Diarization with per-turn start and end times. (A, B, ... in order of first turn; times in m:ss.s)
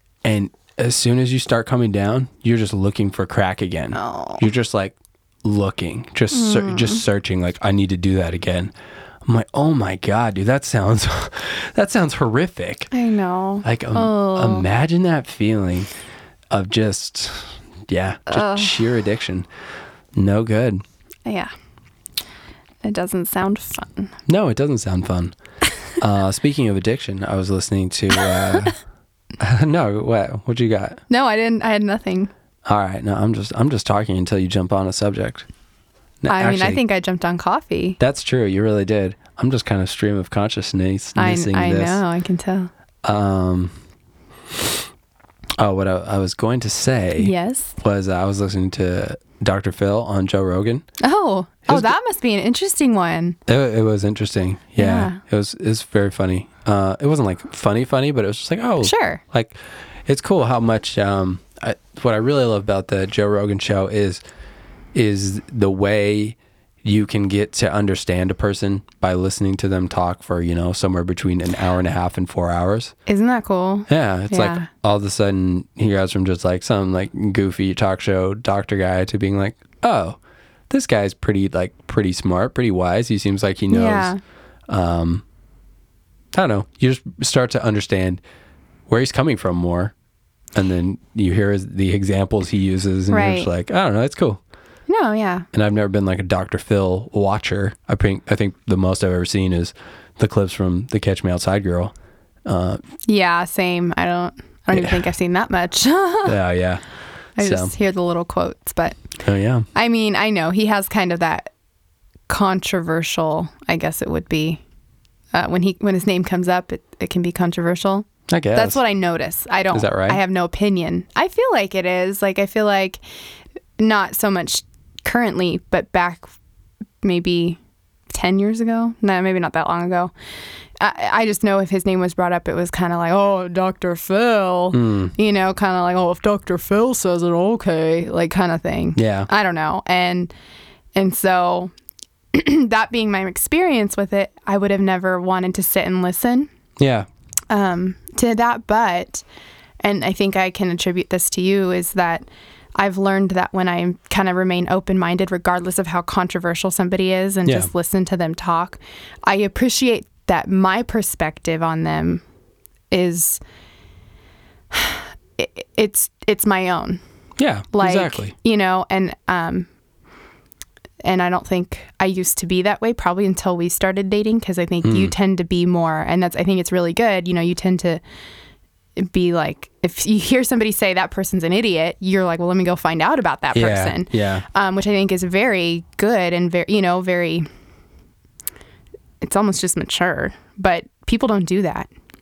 0:00.2-0:08.7 A
0:04.0-0:04.4 B
0:06.3-0:07.0 B
0:09.3-0:12.9 A
0:12.9-0:14.7 B
0:13.6-0:15.9 A
0:16.5-0:19.5 A
0:18.3-0:18.8 B
0:20.1-0:20.8 A
0:21.3-0:21.5 B
0:22.8-0:24.1 B
0:24.3-0:25.4 A
0:26.0-0:28.8 A
0:28.2-0:28.7 B
0:29.4-0:31.0 A
0:31.1-0:32.3 B
0:32.7-0:35.5 A
0:36.2-0:36.8 A
0:36.3-0:38.0 B
0:38.0-0:42.0 A
0:41.2-0:42.7 B
0:43.0-0:43.7 A
0:45.6-0:50.8 A
0:47.2-0:47.8 B
0:51.0-0:53.4 B
0:51.7-0:51.9 A
0:53.5-1:04.2 A
0:54.8-0:55.2 B
0:58.8-0:59.2 B
1:04.9-1:12.9 A
1:13.1-1:14.7 B
1:13.9-1:20.2 A
1:20.7-1:24.1 A
1:23.7-1:24.2 B
1:24.7-1:25.2 A
1:26.3-1:28.2 A
1:28.9-1:29.9 A
1:30.6-1:34.4 A
1:33.1-1:33.5 B
1:34.9-1:35.5 B
1:35.5-1:41.9 A
1:42.5-1:42.8 A
1:43.1-1:46.4 B
1:44.7-1:45.0 A
1:46.2-1:46.8 A
1:47.4-1:49.0 B
1:47.4-1:47.7 A
1:49.2-1:49.7 A
1:49.8-1:51.5 B
1:52.3-1:54.6 B
1:55.3-2:03.0 B
1:58.3-1:58.8 A
1:59.7-2:00.2 A
2:03.8-2:06.3 B
2:07.0-2:10.1 B
2:10.8-2:20.3 B
2:14.7-2:15.1 A
2:19.0-2:19.3 A
2:21.0-2:21.7 B
2:22.3-2:26.5 B
2:26.8-2:27.1 A
2:27.5-2:29.2 B
2:29.8-2:42.2 B
2:42.9-2:43.4 B
2:44.7-2:47.0 B
2:47.4-2:48.3 A
2:47.7-2:49.7 B
2:51.0-2:58.0 B
2:54.8-2:55.1 A
2:59.0-3:07.5 B
3:03.5-3:04.5 A
3:09.2-3:11.9 B